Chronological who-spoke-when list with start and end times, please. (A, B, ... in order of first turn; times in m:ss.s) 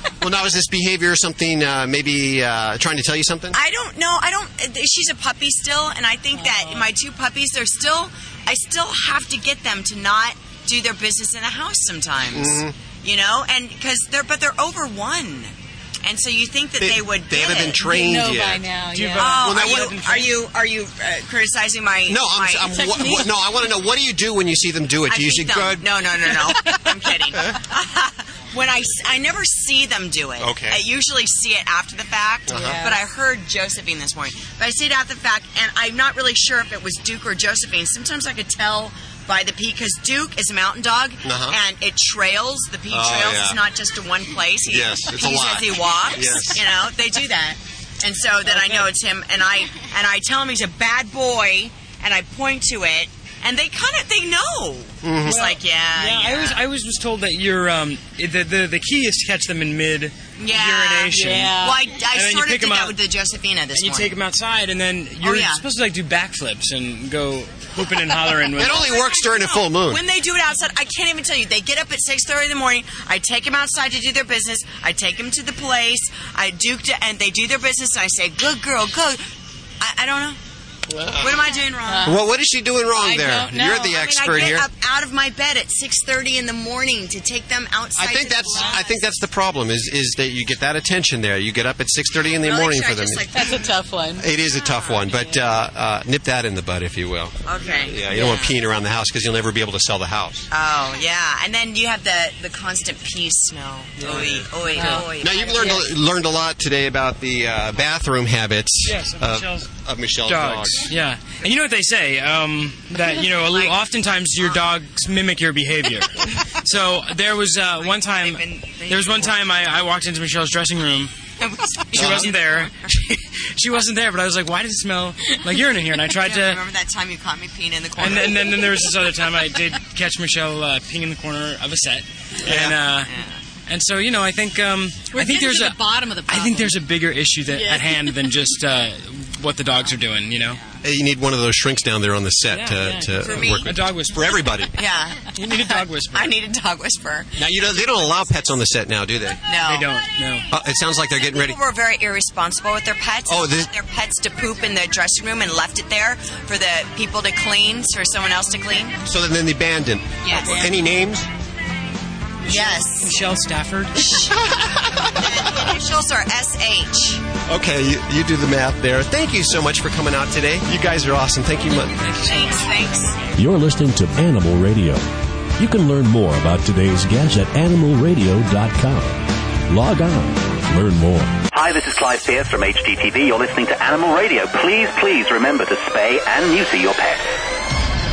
0:00.2-0:03.6 A
0:03.5-0:17.9 B
0:06.3-0:06.8 C
0:12.3-0:12.7 A
0:16.8-0:18.7 A
0:17.8-0:19.5 C
0:18.9-0:20.4 D
0:19.1-0:23.3 B
0:19.4-0:19.9 A
0:22.1-0:25.8 A
0:22.8-0:23.2 C
0:25.1-0:56.6 B
0:30.4-0:30.8 A
0:32.5-0:32.8 A
0:41.2-0:41.6 A
0:42.9-0:43.6 A
0:44.6-0:46.6 A
0:48.4-0:48.9 D
0:55.0-0:55.5 A
0:55.3-1:03.0 D
1:00.4-1:04.1 B
1:03.7-1:08.9 D
1:05.2-1:05.6 B
1:08.0-1:19.2 B
1:08.6-1:10.0 A
1:19.8-1:20.4 B
1:21.0-1:24.7 A
1:21.2-1:22.2 B
1:23.0-1:23.6 D
1:23.6-1:29.0 B
1:28.0-1:33.5 A
1:32.4-1:33.6 B
1:33.3-1:34.2 C
1:34.2-1:40.4 A
1:34.6-1:35.1 B
1:37.4-1:38.6 B
1:40.5-1:45.9 B
1:44.0-1:45.1 D
1:45.2-1:50.9 A
1:48.8-1:49.7 D
1:50.2-2:01.1 D
1:53.0-1:53.9 B
1:57.7-1:59.4 B
2:01.4-2:03.2 B
2:01.9-2:02.7 D
2:03.5-2:06.6 D
2:06.0-2:08.9 B
2:08.0-2:13.1 D
2:12.4-2:12.8 A
2:12.9-2:13.4 B
2:13.7-2:20.6 D
2:15.1-2:16.8 C
2:17.5-2:18.2 C
2:20.8-2:24.7 A
2:22.5-2:24.5 D
2:23.2-2:23.8 B
2:24.7-2:27.3 B
2:25.3-2:26.4 D
2:27.4-2:29.4 A
2:29.5-2:29.9 B
2:29.6-2:30.5 D
2:30.5-2:31.6 A
2:31.2-2:39.0 B
2:33.3-2:33.7 A
2:39.0-2:41.3 A
2:40.2-2:40.7 B
2:42.4-2:43.2 B
2:42.4-2:44.1 D
2:43.9-2:44.4 B
2:44.1-2:45.1 A
2:45.2-2:47.2 B
2:47.5-2:52.0 A
2:52.0-2:53.2 B
2:52.3-2:52.7 D
2:53.4-2:55.0 E
2:55.6-3:01.4 E
3:01.5-3:07.2 F